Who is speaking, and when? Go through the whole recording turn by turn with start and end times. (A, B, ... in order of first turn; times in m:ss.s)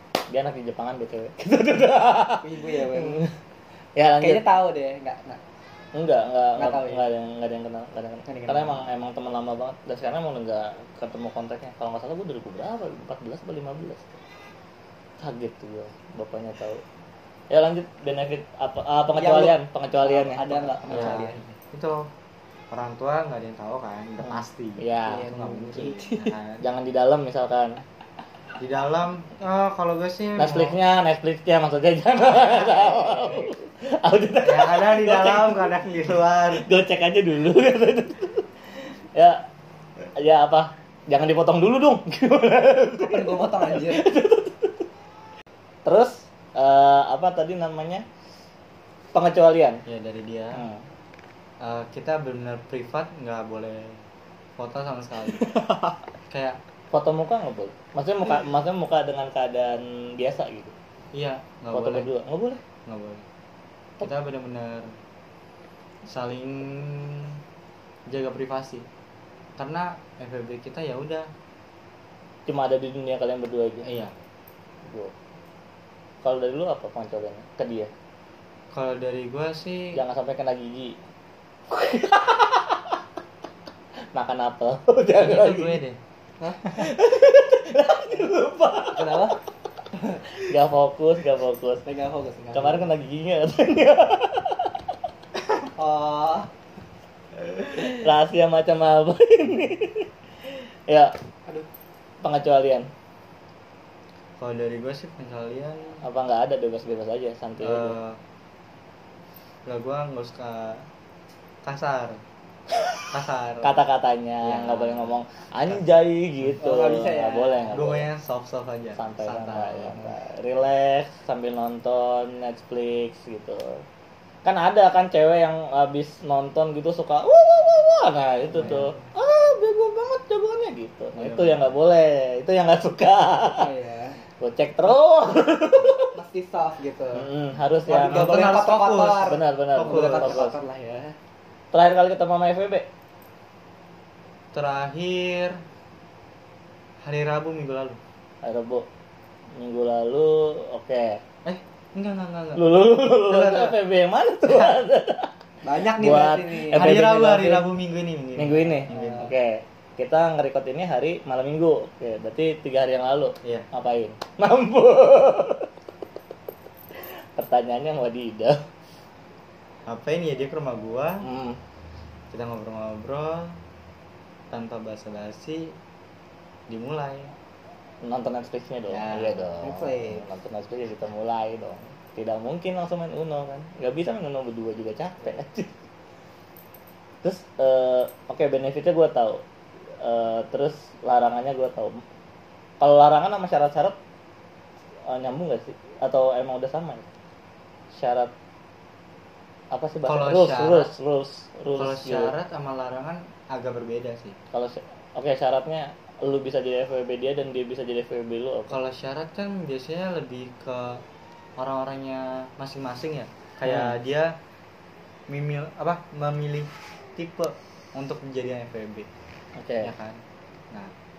0:00.3-0:03.3 A
0:02.4-0:03.2 B
0:04.0-0:04.4 A
0:04.2-0:05.4 B
0:06.0-0:14.2 A
0:06.6-0:07.0 B
0:08.3-0:08.8 B
0:15.2-0:16.8 A
0:17.5-0:21.2 A
0:19.2-0:21.5 B
0:20.9-0:22.1 C
0:22.7-0:26.6 C
0:24.2-0:25.3 A
0:25.0-0:26.4 B
0:26.6-0:27.8 A
0:28.6-0:30.8 C
0:30.4-0:35.9 A
0:32.3-0:33.5 B
0:34.4-0:36.7 C
0:36.5-0:38.4 A
0:39.2-0:39.4 A
0:40.2-0:44.8 A
0:43.0-0:44.1 B
0:45.8-0:48.0 A
0:49.1-0:49.8 A
0:49.9-0:50.6 C
0:50.5-0:50.8 A
0:51.6-0:54.0 C
0:54.6-0:55.6 C
0:56.3-0:56.6 C
0:56.9-1:00.7 A
1:01.1-1:02.1 C
1:01.7-1:02.6 A
1:02.9-1:03.3 C
1:04.0-1:04.9 C
1:06.1-1:07.4 C
1:08.1-1:08.9 C
1:09.6-1:11.3 C
1:12.5-1:13.9 A
1:13.8-1:14.1 C
1:14.8-1:15.1 A
1:16.2-1:17.9 A
1:18.7-1:20.0 C
1:20.0-1:21.0 A
1:21.7-1:22.9 A
1:24.1-1:25.8 A
1:25.1-1:26.0 C
1:26.4-1:26.9 B
1:26.7-1:29.3 A
1:28.9-1:29.4 B
1:29.9-1:30.3 B
1:30.3-1:31.8 A
1:31.8-1:32.9 B
1:32.5-1:34.7 A
1:35.8-1:36.5 B
1:37.7-1:40.1 A
1:42.2-1:42.9 A
1:44.4-1:46.0 C
1:46.0-1:48.0 A
1:47.6-1:48.2 C
1:49.7-1:50.9 C
1:51.6-1:52.2 C
1:53.1-1:53.8 C
1:53.6-1:58.1 A
1:54.4-1:55.9 C
1:56.6-1:57.8 B
1:57.7-2:00.2 C
1:59.0-2:03.8 A
2:04.4-2:13.7 A
2:08.5-2:08.9 C
2:08.7-2:09.0 B
2:11.2-2:11.7 C
2:13.5-2:14.2 B
2:14.4-2:16.1 A
2:16.1-2:17.3 B
2:17.2-2:18.5 A
2:17.9-2:21.2 B
2:17.9-2:20.5 C
2:19.2-2:20.6 A
2:21.7-2:22.9 A
2:24.5-2:25.6 C
2:27.0-2:28.0 C
2:28.4-2:28.9 A
2:29.5-2:31.2 A
2:31.4-2:32.6 C
2:32.6-2:35.3 A
2:33.3-2:33.8 C
2:34.4-2:34.8 C
2:35.6-2:37.6 B
2:35.8-2:37.6 A
2:36.7-2:39.3 C
2:38.4-2:45.7 A
2:38.9-2:39.2 B
2:47.4-2:48.6 A
2:49.9-2:51.3 C
2:51.2-2:51.6 A
2:52.3-2:53.6 C
2:54.5-2:55.8 C
2:56.7-2:57.3 C
2:58.0-3:05.7 A
2:58.9-2:59.6 C
2:59.6-3:00.3 B
3:07.2-3:09.4 A
3:10.0-3:12.0 A
3:12.8-3:14.0 A
3:15.1-3:17.0 A
3:17.9-3:18.3 A
3:19.7-3:22.3 A
3:20.0-3:20.9 C
3:21.7-3:24.4 C
3:24.5-3:28.8 A
3:28.7-3:31.0 C
3:31.6-3:34.4 C
3:33.6-3:34.0 A
3:35.3-3:39.1 C
3:39.6-3:39.9 A
3:39.8-3:40.2 C